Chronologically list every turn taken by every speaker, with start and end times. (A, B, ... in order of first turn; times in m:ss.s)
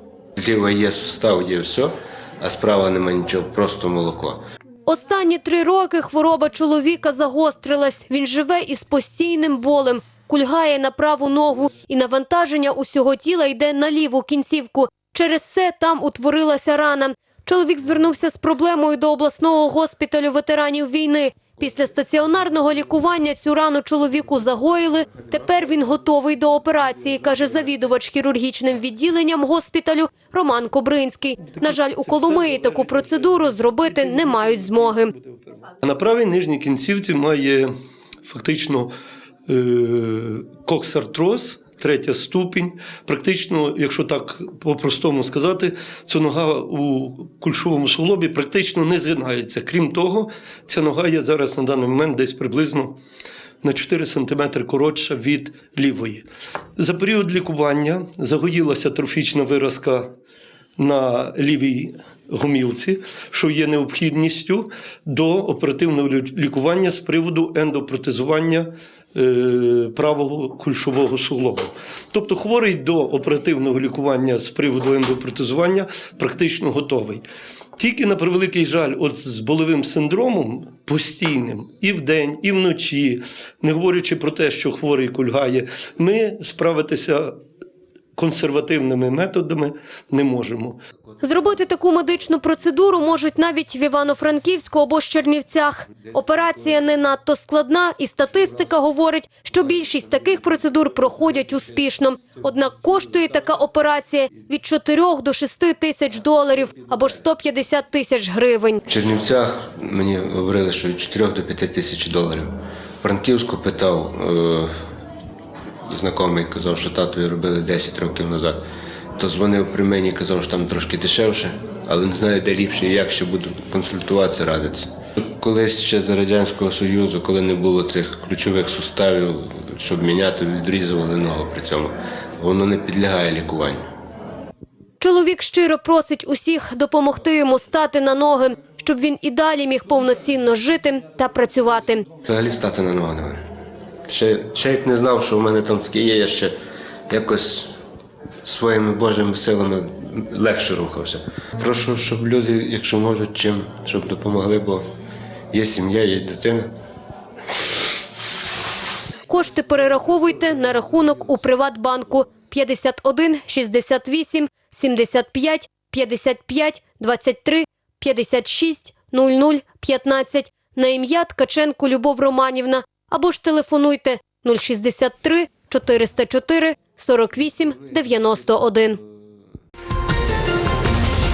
0:00.4-0:04.4 A
0:04.9-0:35.1 B
0:31.5-0:33.1 C
0:35.1-0:37.7 C
0:38.2-0:38.9 C
0:39.5-0:53.0 C
0:53.6-0:56.2 C
0:56.8-1:00.1 C
1:00.8-1:17.2 C
1:17.8-1:27.4 C
1:28.2-1:30.8 C
1:31.2-1:48.8 B
1:48.9-1:54.7 A
1:55.9-1:58.6 A
1:59.2-2:13.9 A
2:15.0-2:22.1 B
2:22.3-2:23.4 A
2:24.1-2:26.6 A
2:27.1-2:27.8 A
2:28.4-2:34.8 A
2:35.5-2:36.7 A
2:39.3-2:59.0 B